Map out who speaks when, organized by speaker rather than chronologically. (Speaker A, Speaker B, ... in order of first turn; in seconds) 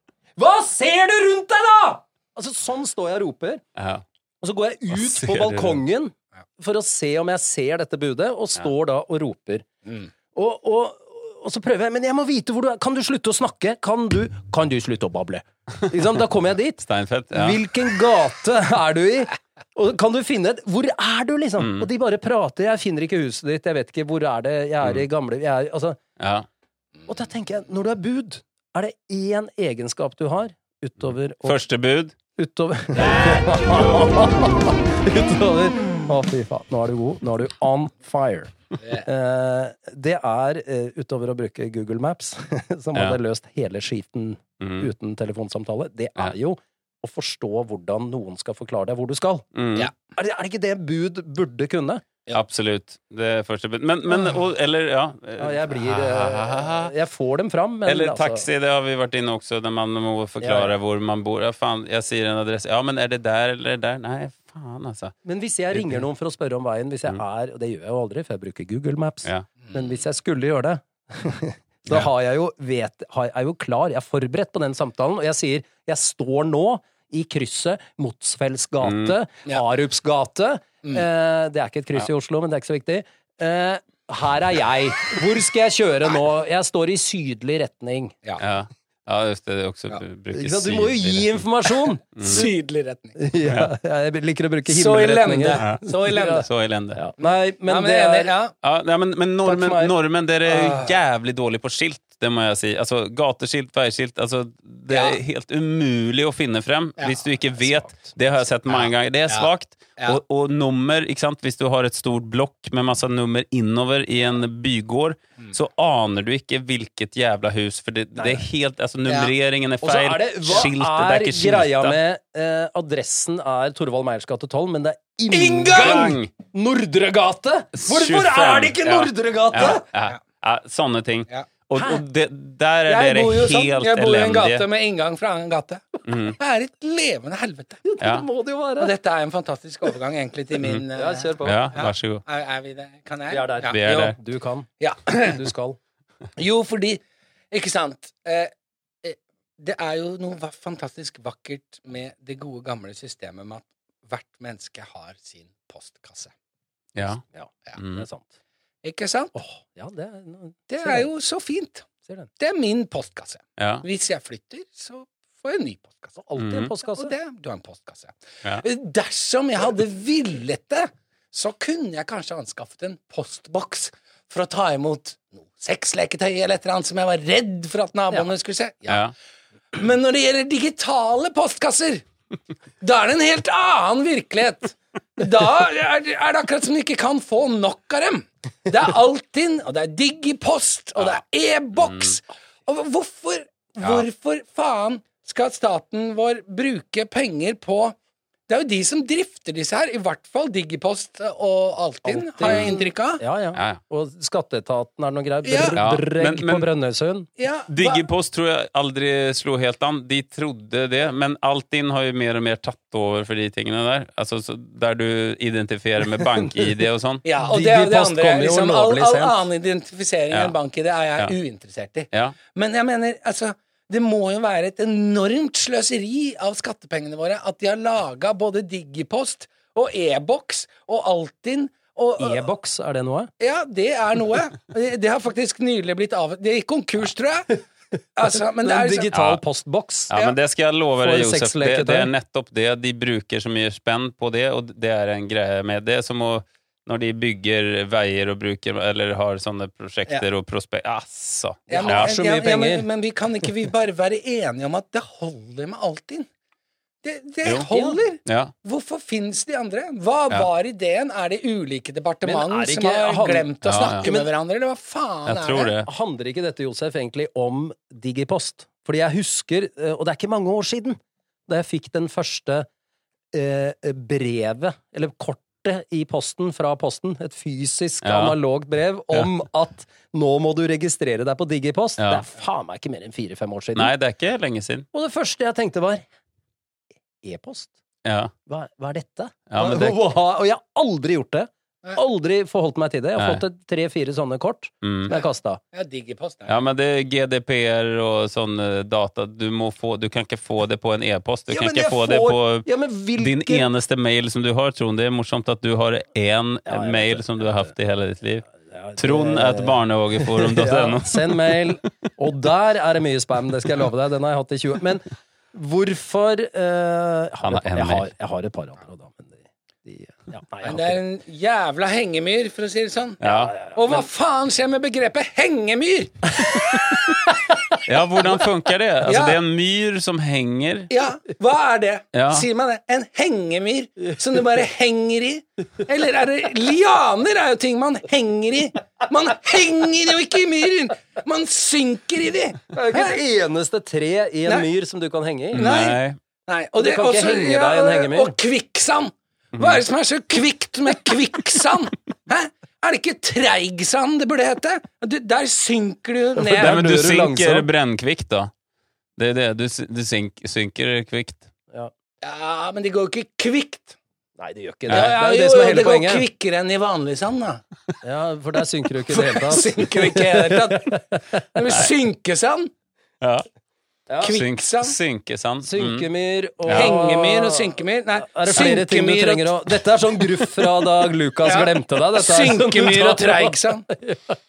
Speaker A: 0.4-3.6, 4.4-9.7, 10.3-26.0, 27.1-31.6, 32.4-49.5, 50.0-52.0, 55.4-58.5, 60.4-60.7, 65.2-88.1, 90.3-92.5, 93.2-98.3, 99.4-99.9, 107.6-108.2, 118.2-118.4, 119.8-129.8, 131.7-132.0, 137.8-138.9, 140.9-141.7, 143.3-145.8, 157.3-158.3, 159.3-161.1, 166.2-167.1, 202.0-207.3, 216.3-216.7, 217.4-219.4, 232.2-233.3, 238.6-240.1, 241.0-242.1, 251.8-252.8, 257.7-258.0, 262.2-264.3, 265.9-272.7, 273.3-283.9, 284.9-286.0, 287.2-287.8, 288.4-295.6, 301.5-303.7, 306.6-307.7, 308.6-321.0, 323.3-324.0, 342.7-345.6, 346.8-348.3, 356.4-357.7, 364.4-366.2, 368.0-371.4, 374.1-374.4, 375.6-384.4
Speaker B: 3.7-4.0, 4.9-5.8, 16.8-17.6, 21.6-21.9, 26.2-26.5, 31.4-32.1, 44.6-44.9, 49.5-49.9, 52.3-56.9, 57.9-65.1, 65.7-66.0, 78.8-79.1, 88.4-91.4, 92.2-92.5, 93.4-93.7, 95.5-97.0, 98.6-122.0, 125.7-126.3, 127.7-134.7, 136.1-136.4, 138.0-138.3, 141.4-142.2, 143.7-144.2, 156.9-157.2, 157.8-158.0, 163.6-163.8, 166.4-166.7, 178.9-179.1, 191.8-192.2, 202.4-202.7, 205.7-206.7, 207.7-217.2, 239.1-239.4, 240.1-252.1, 258.2-258.5, 263.6-264.1, 265.2-265.9, 278.0-278.4, 282.0-282.2, 283.7-284.9, 288.0-288.3, 289.5-290.0, 293.2-293.4, 294.8-295.1, 296.5-311.7, 317.4-318.1, 323.2-323.5, 327.8-330.9, 332.1-332.4, 345.5-346.2, 349.5-349.8, 356.6-358.5, 359.2-361.5, 364.9-365.1, 373.2-373.4, 374.2-376.1
Speaker C: 92.2-93.2, 94.7-96.5, 97.2-98.5, 100.5-101.0, 104.9-105.2, 107.0-107.2, 108.7-110.2, 119.1-119.3, 125.3-126.2, 132.9-137.8, 138.8-143.7, 144.8-145.4, 146.4-148.5, 149.0-156.3, 158.8-159.3, 160.7-161.9, 162.4-166.2, 166.9-179.1, 179.7-182.0, 182.8-197.9, 198.5-203.2, 205.4-205.8, 207.4-208.1, 217.2-232.5, 233.4-237.6, 238.2-239.1, 251.7-256.3, 257.0-265.7, 295.1-296.6, 320.6-326.6, 329.0-329.4, 330.9-343.2, 345.6-356.8, 362.2-364.0, 364.9-367.6, 369.1-371.0, 371.5-372.7, 374.2-374.9, 376.7-379.7, 381.4-383.8